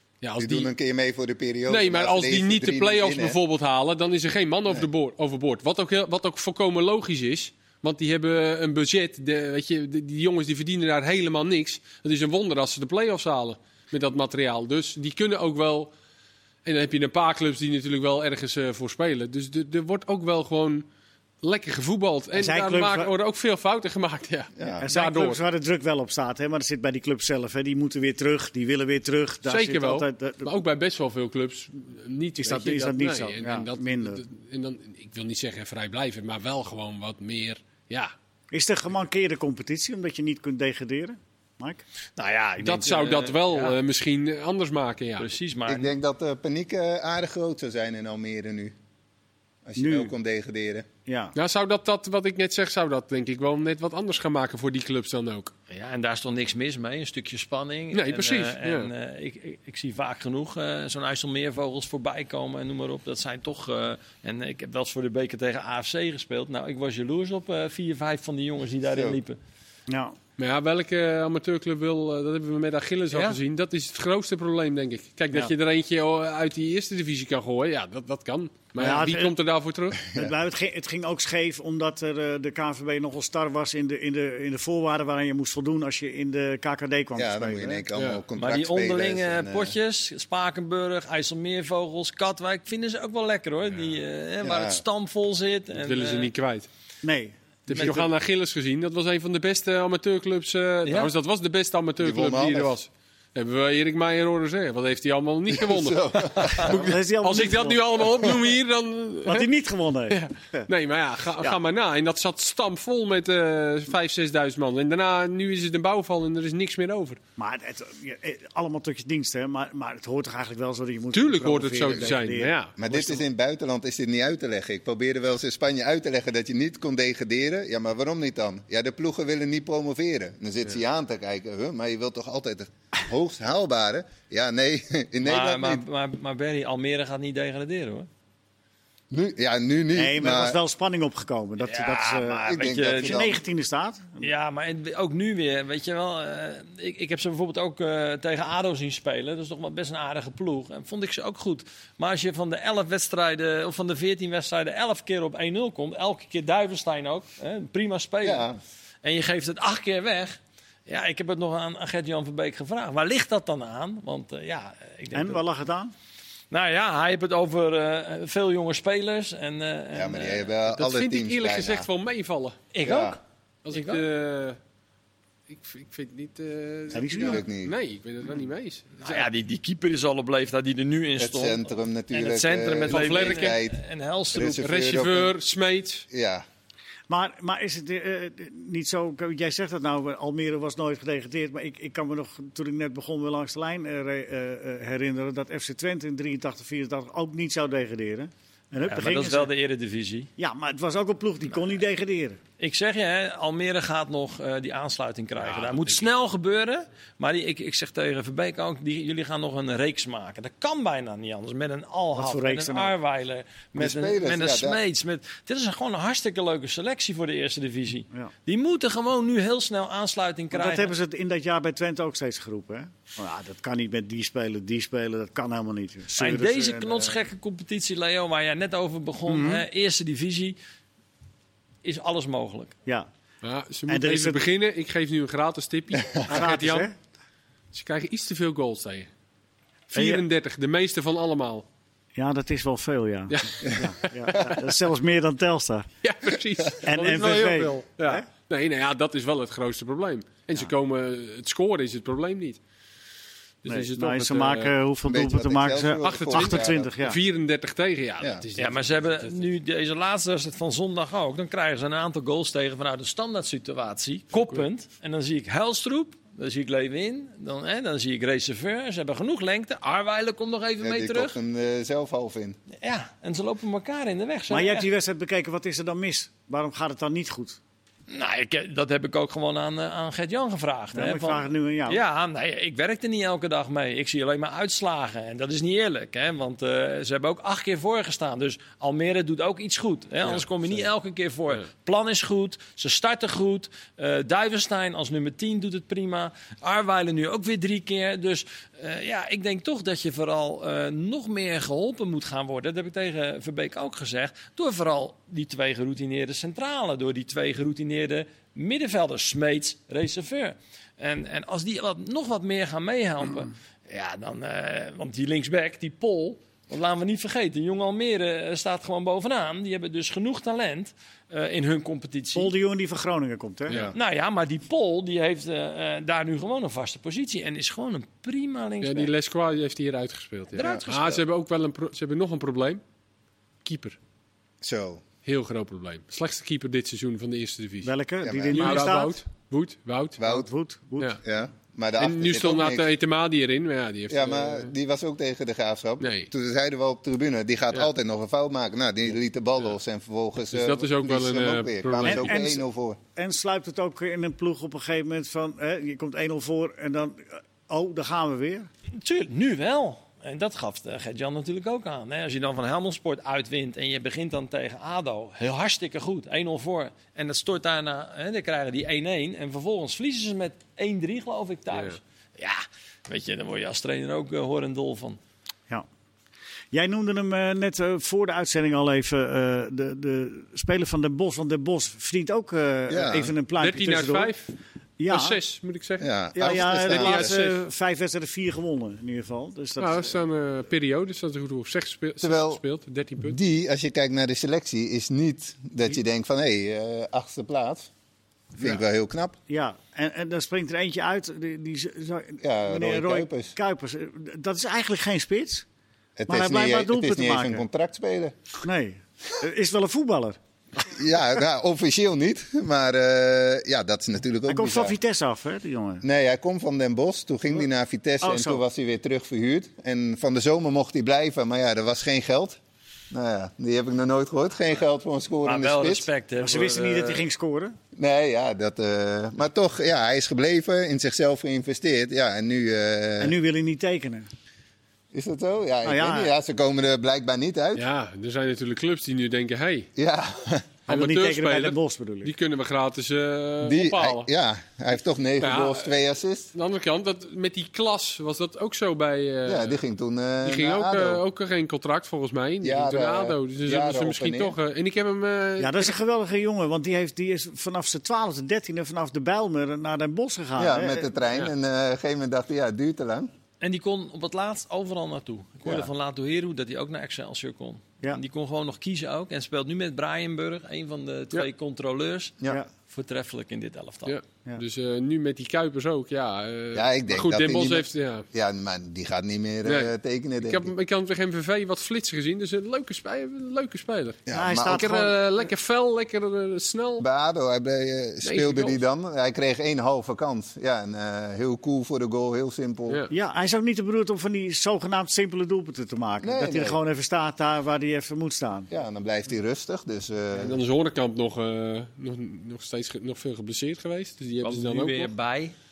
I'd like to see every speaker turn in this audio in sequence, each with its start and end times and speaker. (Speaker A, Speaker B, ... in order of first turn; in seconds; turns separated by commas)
Speaker A: 0.2-0.7, Speaker B: 0.4-3.4, Speaker A: 1.7-15.9, Speaker A: 16.6-20.9, Speaker A: 21.4-25.4, Speaker C: 22.3-23.1, Speaker B: 24.6-24.8, Speaker C: 24.8-30.5, Speaker A: 29.4-38.1, Speaker C: 32.4-34.2, Speaker C: 38.5-41.8, Speaker D: 42.2-43.8, Speaker A: 42.6-45.3, Speaker D: 45.2-45.9, Speaker B: 45.7-48.7, Speaker B: 49.6-50.9, Speaker C: 49.8-50.1, Speaker C: 51.0-51.3, Speaker A: 51.3-55.5, Speaker D: 55.7-69.4, Speaker A: 57.9-58.9, Speaker C: 69.9-70.2, Speaker A: 70.4-80.1, Speaker D: 73.1-73.4, Speaker C: 78.8-79.3, Speaker C: 80.1-87.8, Speaker B: 87.2-89.7, Speaker A: 87.9-88.2, Speaker D: 88.3-96.3, Speaker B: 94.4-94.8, Speaker A: 95.7-96.7, Speaker C: 97.0-98.1, Speaker A: 97.7-109.5, Speaker D: 100.8-101.1, Speaker B: 102.0-102.7, Speaker B: 105.5-106.9, Speaker C: 106.5-108.0, Speaker C: 109.2-110.6, Speaker A: 110.1-117.2, Speaker C: 117.4-123.0, Speaker A: 121.1-122.7, Speaker B: 122.8-135.8, Speaker D: 135.2-138.1, Speaker B: 139.1-140.6, Speaker C: 139.9-144.2, Speaker D: 141.6-143.3, Speaker B: 142.4-143.4, Speaker D: 144.2-158.5, Speaker B: 158.2-158.6, Speaker D: 159.0-165.4, Speaker C: 165.1-165.9, Speaker D: 166.5-170.5, Speaker B: 169.9-171.9, Speaker A: 170.7-172.6, Speaker D: 172.7-174.0, Speaker B: 172.8-173.2, Speaker A: 173.6-174.6, Speaker A: 175.5-179.3, Speaker C: 176.9-177.4, Speaker B: 177.0-177.8, Speaker D: 179.0-184.7, Speaker B: 181.2-183.8, Speaker A: 182.9-183.6, Speaker B: 184.3-185.3, Speaker A: 184.6-186.1, Speaker B: 186.1-186.4, Speaker C: 187.1-199.5, Speaker D: 198.8-200.3, Speaker C: 200.4-202.4, Speaker D: 202.6-220.9, Speaker A: 205.4-206.0, Speaker C: 212.1-212.9, Speaker B: 213.8-214.8, Speaker C: 220.5-227.2, Speaker D: 226.2-230.6, Speaker C: 229.3-229.6, Speaker D: 231.8-232.7, Speaker A: 233.4-236.9, Speaker C: 233.9-234.4, Speaker C: 236.3-236.9, Speaker A: 237.7-239.1, Speaker A: 239.9-241.6, Speaker C: 239.9-240.2, Speaker C: 242.1-245.9, Speaker A: 243.3-244.6, Speaker A: 246.0-252.6, Speaker C: 246.8-248.3, Speaker A: 253.6-254.7, Speaker C: 253.7-257.2, Speaker B: 255.0-256.9, Speaker A: 256.0-259.4, Speaker D: 258.6-271.4, Speaker B: 270.8-272.6, Speaker D: 272.8-274.9, Speaker C: 274.5-277.6, Speaker D: 278.1-322.5, Speaker C: 280.9-282.0, Speaker C: 322.3-323.8, Speaker B: 323.7-323.9, Speaker D: 323.9-329.1, Speaker A: 328.8-332.8, Speaker D: 330.5-331.2, Speaker A: 333.6-334.0, Speaker B: 334.6-335.0, Speaker A: 335.2-337.9, Speaker C: 337.8-339.2, Speaker B: 338.2-338.9, Speaker A: 338.5-340.2, Speaker B: 340.2-340.5, Speaker C: 340.2-341.2, Speaker B: 341.2-342.9, Speaker A: 342.0-344.7, Speaker B: 344.1-353.0, Speaker A: 346.0-346.3, Speaker A: 350.5-352.5, Speaker C: 352.0-358.7, Speaker D: 358.9-375.2, Speaker C: 376.7-384.3, Speaker B: 382.9-383.3, Speaker A: 383.6-384.5, Speaker C: 385.0-385.4, Speaker A: 385.1-387.6, Speaker B: 386.0-387.3, Speaker C: 386.3-390.1, Speaker A: 389.8-393.4, Speaker B: 392.2-392.6, Speaker B: 393.2-397.9, Speaker B: 398.6-399.4, Speaker C: 399.5-405.6, Speaker B: 402.4-403.5, Speaker B: 406.2-408.5, Speaker C: 406.3-407.6, Speaker C: 408.6-410.4, Speaker B: 410.8-415.0, Speaker C: 414.5-416.0, Speaker B: 416.0-422.6, Speaker C: 418.2-418.6, Speaker B: 423.1-426.1, Speaker D: 425.4-427.3, Speaker C: 426.4-427.8, Speaker B: 427.9-433.4, Speaker C: 433.2-434.3, Speaker B: 435.1-437.8, Speaker C: 435.8-436.3, Speaker A: 437.8-439.9, Speaker B: 439.9-440.7, Speaker C: 440.9-442.3, Speaker A: 440.9-444.3, Speaker B: 443.6-446.5, Speaker A: 445.4-445.9, Speaker A: 446.5-449.8, Speaker B: 449.4-451.2, Speaker A: 450.4-455.9, Speaker B: 452.6-454.6, Speaker C: 455.6-461.1, Speaker B: 460.6-463.3, Speaker D: 463.6-474.1, Speaker A: 474.1-478.2, Speaker B: 476.7-480.7, Speaker A: 479.6-487.1, Speaker B: 484.3-484.9, Speaker C: 484.3-485.1, Speaker B: 487.0-493.0, Speaker A: 488.2-488.8, Speaker C: 493.1-498.7, Speaker B: 496.2-496.8, Speaker B: 498.7-500.6, Speaker A: 500.4-505.1, Speaker D: 504.4-505.5